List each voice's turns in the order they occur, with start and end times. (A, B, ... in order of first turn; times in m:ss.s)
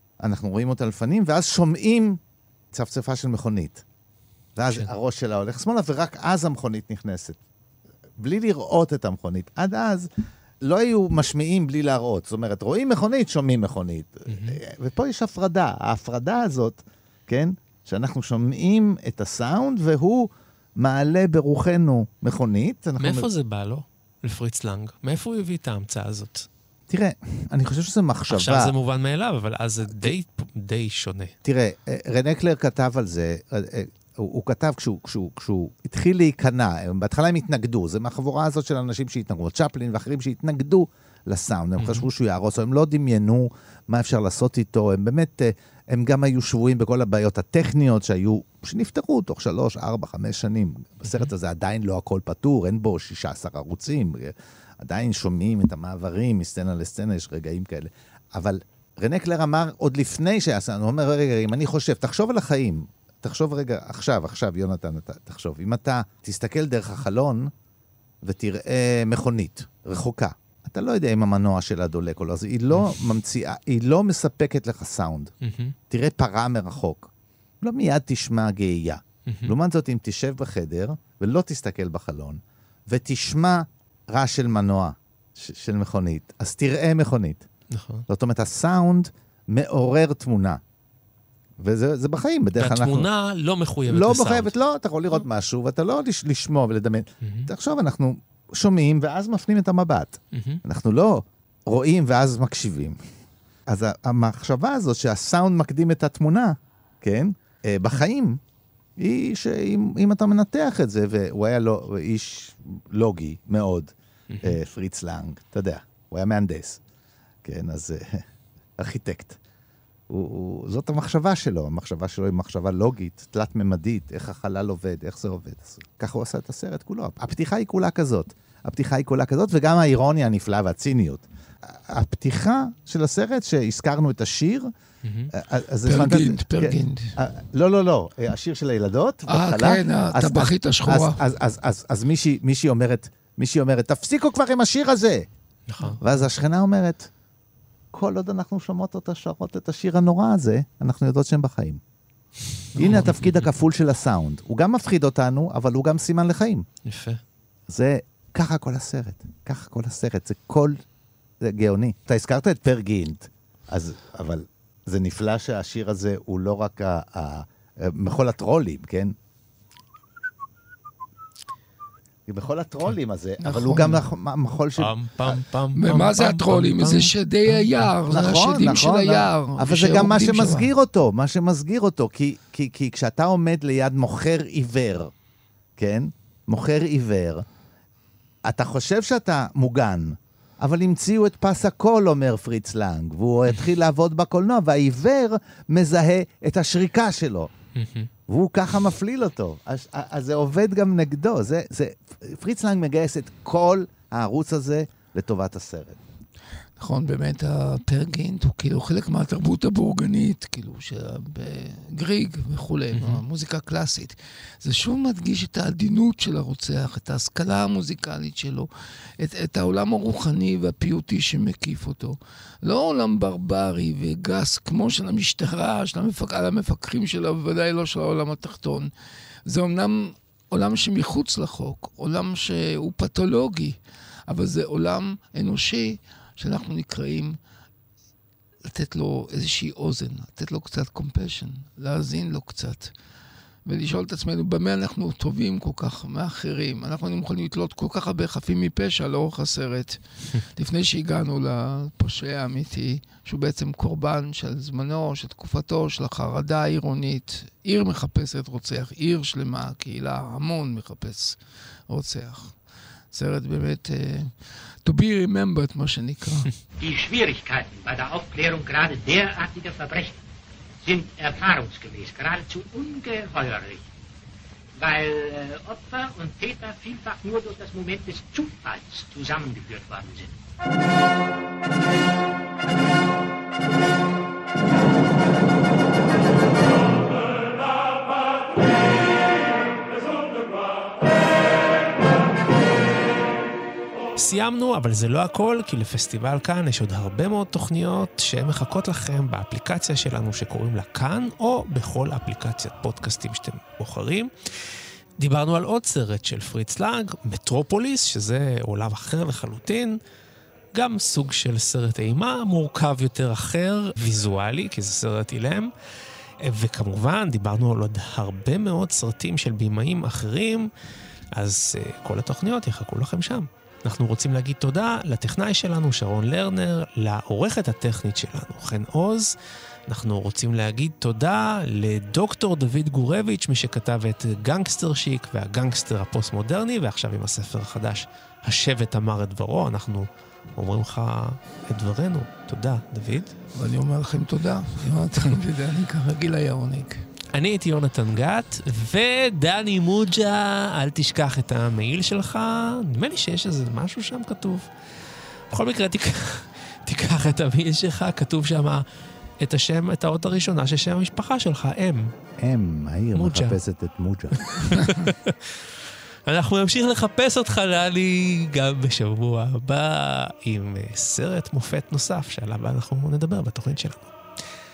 0:00.2-0:02.2 A
0:02.7-0:03.8 A
0:04.6-0:07.4 A
0:08.2-0:10.1 A
0:10.6-0:23.3 A
0:14.3-0:14.6 B
0:23.0-0:26.5 B
0:26.9-0:28.7 A
0:28.3-0:31.3 B
0:29.9-0:30.1 A
0:31.4-1:07.5 A
0:41.8-0:42.1 B
1:08.2-1:15.3 A
1:12.7-1:13.0 B
1:15.4-1:15.8 B
1:15.9-1:17.1 A
1:17.6-1:27.5 A
1:19.3-1:19.5 B
1:27.7-1:28.0 B
1:28.1-1:30.6 A
1:31.6-1:33.1 A
1:32.6-1:34.5 B
1:33.9-1:43.0 A
1:37.2-1:37.5 B
1:40.3-1:40.6 B
1:43.7-1:48.4 A
1:49.0-1:56.8 A
1:54.3-1:54.6 B
1:57.4-1:58.2 A
1:58.8-1:59.4 A
2:00.1-2:14.7 A
2:15.0-2:15.3 B
2:15.3-2:25.3 A
2:15.9-2:17.1 C
2:19.3-2:21.2 C
2:25.7-2:26.2 B
2:26.0-2:27.1 A
2:27.9-2:31.8 A
2:32.8-2:33.5 B
2:32.8-2:36.6 A
2:36.9-2:37.2 B
2:37.7-2:40.8 A
2:41.4-2:49.1 A
2:52.3-2:55.4 A
2:53.4-2:54.0 C
2:54.8-2:57.9 B
2:55.8-3:00.7 C
2:58.1-3:05.1 A
3:05.8-3:07.4 A
3:08.4-3:17.5 A
3:17.8-3:18.1 B
3:18.3-3:26.0 A
3:26.8-3:38.7 C
3:33.0-3:33.2 B
3:39.2-3:48.9 C
3:49.5-3:53.8 C
3:54.3-3:57.4 C
3:58.6-4:02.9 C
4:03.7-4:21.4 C
4:21.9-4:22.6 C
4:23.1-4:24.3 C
4:24.8-4:26.5 C
4:26.8-4:30.2 D
4:30.8-4:33.8 D
4:34.8-4:40.4 D
4:54.2-5:04.3 B
5:05.2-5:10.0 B
5:10.7-5:15.7 B
5:16.4-5:20.7 B
5:21.3-5:29.3 B
5:29.9-5:43.4 B
5:43.5-5:47.0 C
5:47.3-5:54.7 B
5:55.5-5:58.8 B
5:59.4-6:02.1 B
6:02.4-6:04.7 A
6:03.1-6:03.6 B
6:04.4-6:05.7 B
6:06.3-6:14.5 B